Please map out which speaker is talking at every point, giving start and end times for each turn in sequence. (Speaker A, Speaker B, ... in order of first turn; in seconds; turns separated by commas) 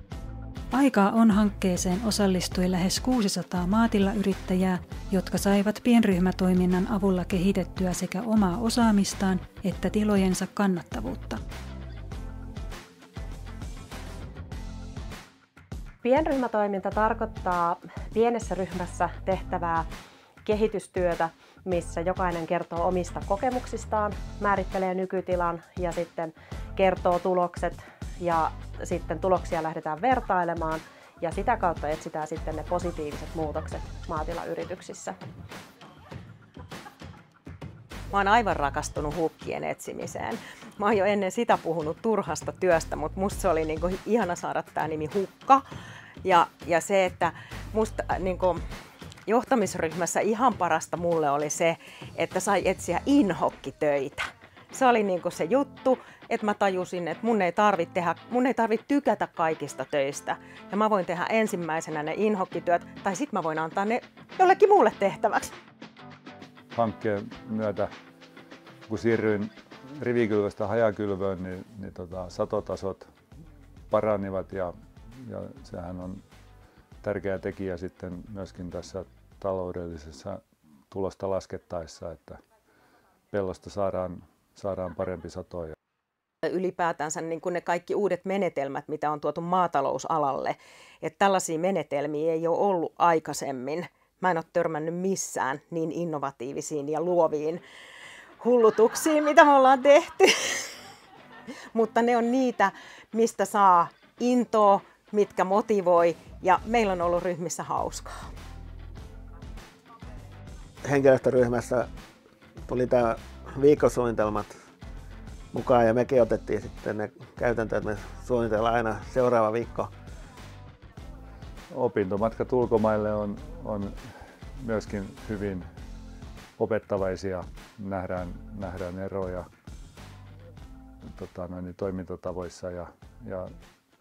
Speaker A: 0.7-11.4, Speaker B: 16.0-19.9, Speaker B: 20.4-35.1, Speaker C: 38.1-45.6, Speaker C: 46.2-48.6, Speaker C: 49.3-65.5, Speaker D: 66.7-67.9, Speaker D: 68.9-73.1, Speaker D: 73.9-76.2, Speaker D: 77.0-82.4, Speaker D: 83.3-85.7, Speaker C: 86.4-97.6, Speaker C: 98.4-100.7, Speaker C: 101.7-108.3, Speaker E: 110.8-111.9, Speaker E: 112.7-114.5, Speaker E: 115.5-119.9, Speaker D: 121.7-124.0, Speaker D: 124.6-125.7, Speaker D: 126.6-129.4, Speaker D: 131.1-133.5